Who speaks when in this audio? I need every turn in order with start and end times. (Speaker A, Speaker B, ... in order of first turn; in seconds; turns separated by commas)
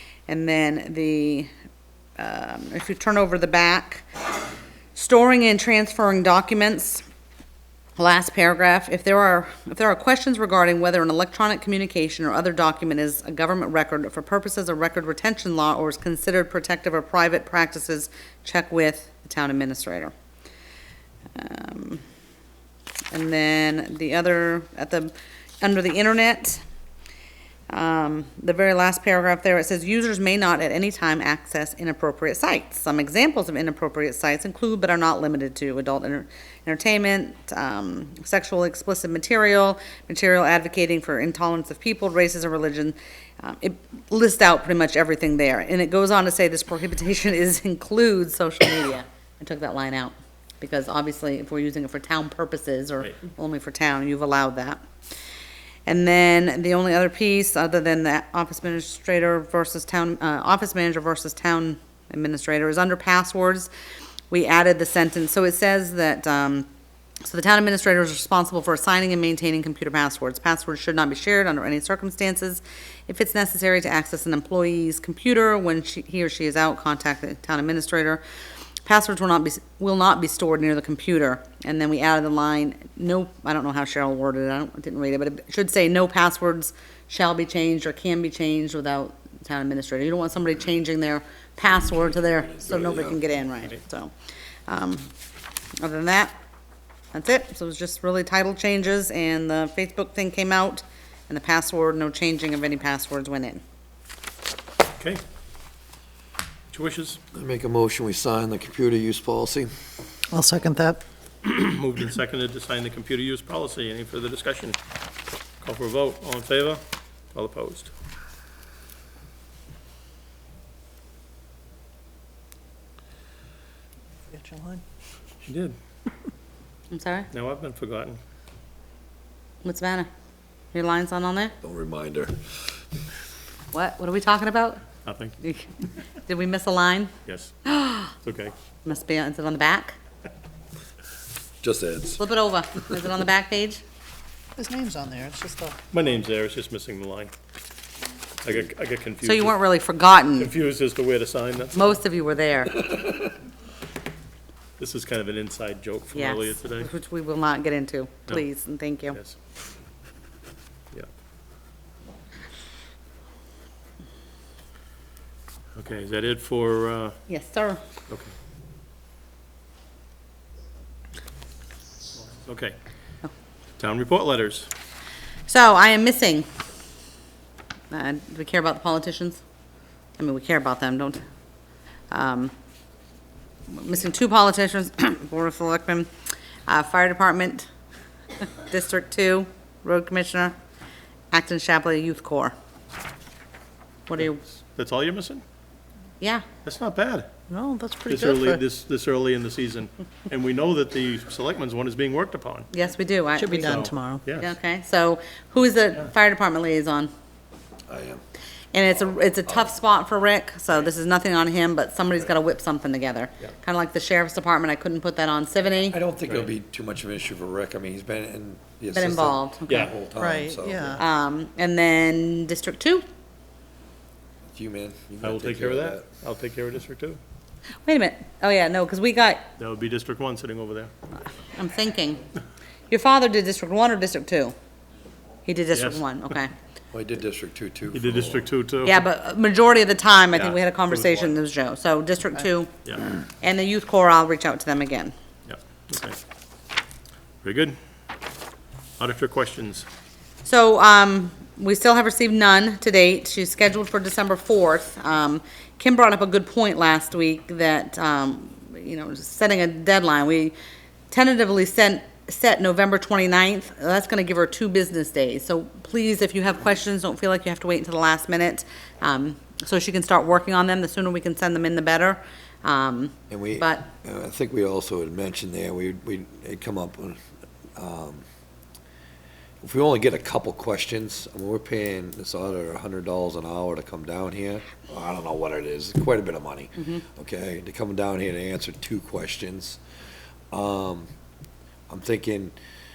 Speaker A: 0.3-1.5, Speaker A: 2.2-4.1, Speaker A: 4.9-7.0, Speaker A: 8.0-20.1, Speaker A: 21.4-22.0, Speaker A: 23.1-26.6, Speaker A: 27.7-54.8, Speaker A: 55.9-63.7, Speaker A: 64.3-66.7, Speaker A: 67.2-78.2, Speaker A: 78.8-94.1, Speaker B: 92.4-93.2, Speaker A: 94.7-95.1, Speaker A: 95.8-96.3, Speaker A: 97.1-103.6, Speaker C: 106.7-107.2, Speaker B: 107.3-109.7, Speaker D: 110.3-111.0, Speaker C: 111.4-114.8, Speaker C: 115.6-116.8, Speaker C: 117.3-117.9, Speaker D: 124.3-124.8, Speaker C: 125.4-125.8, Speaker A: 126.9-127.3, Speaker C: 127.3-128.2, Speaker A: 129.6-130.1, Speaker A: 130.7-131.6, Speaker B: 131.6-132.6, Speaker A: 133.7-134.8, Speaker C: 135.1-135.4, Speaker A: 135.4-137.1, Speaker C: 137.3-138.5, Speaker A: 137.7-138.1, Speaker A: 138.8-140.0, Speaker B: 141.6-142.2, Speaker A: 142.2-143.8, Speaker D: 144.6-145.8, Speaker C: 145.9-147.3, Speaker C: 148.4-149.6, Speaker A: 149.2-150.5, Speaker C: 150.4-152.0, Speaker A: 151.8-153.2, Speaker C: 154.8-156.9, Speaker A: 156.1-159.2, Speaker C: 165.8-167.2, Speaker A: 167.3-167.8, Speaker C: 172.2-172.8, Speaker C: 173.8-174.7, Speaker A: 175.5-176.5, Speaker A: 177.9-179.4, Speaker A: 180.2-181.2, Speaker A: 182.1-182.5, Speaker A: 183.7-186.1, Speaker A: 186.7-187.7, Speaker A: 188.4-190.6, Speaker A: 191.3-192.5, Speaker A: 194.1-194.4, Speaker C: 194.7-195.4, Speaker A: 196.2-196.5, Speaker C: 196.6-197.3, Speaker D: 197.5-198.6, Speaker C: 198.1-202.7, Speaker A: 202.7-207.1, Speaker D: 203.3-204.2, Speaker C: 203.6-204.5, Speaker B: 207.9-208.2, Speaker A: 208.7-216.0, Speaker B: 215.9-221.0, Speaker A: 218.9-219.9, Speaker C: 219.7-219.9, Speaker D: 220.2-221.0, Speaker A: 221.0-223.0, Speaker B: 224.5-226.1, Speaker C: 225.2-227.2, Speaker A: 227.8-229.4, Speaker C: 229.6-230.9, Speaker A: 231.4-232.2, Speaker A: 232.9-234.6, Speaker A: 235.5-236.5, Speaker C: 235.7-236.0, Speaker B: 236.9-238.5, Speaker C: 237.9-239.0, Speaker A: 238.8-245.1, Speaker C: 240.3-241.3, Speaker C: 245.5-246.2, Speaker C: 247.4-247.8, Speaker C: 249.0-249.9, Speaker A: 250.4-260.5, Speaker A: 261.1-273.9, Speaker B: 273.3-277.2, Speaker B: 277.8-278.2, Speaker B: 279.6-289.8, Speaker A: 286.8-287.0, Speaker B: 290.5-291.1, Speaker B: 291.9-292.5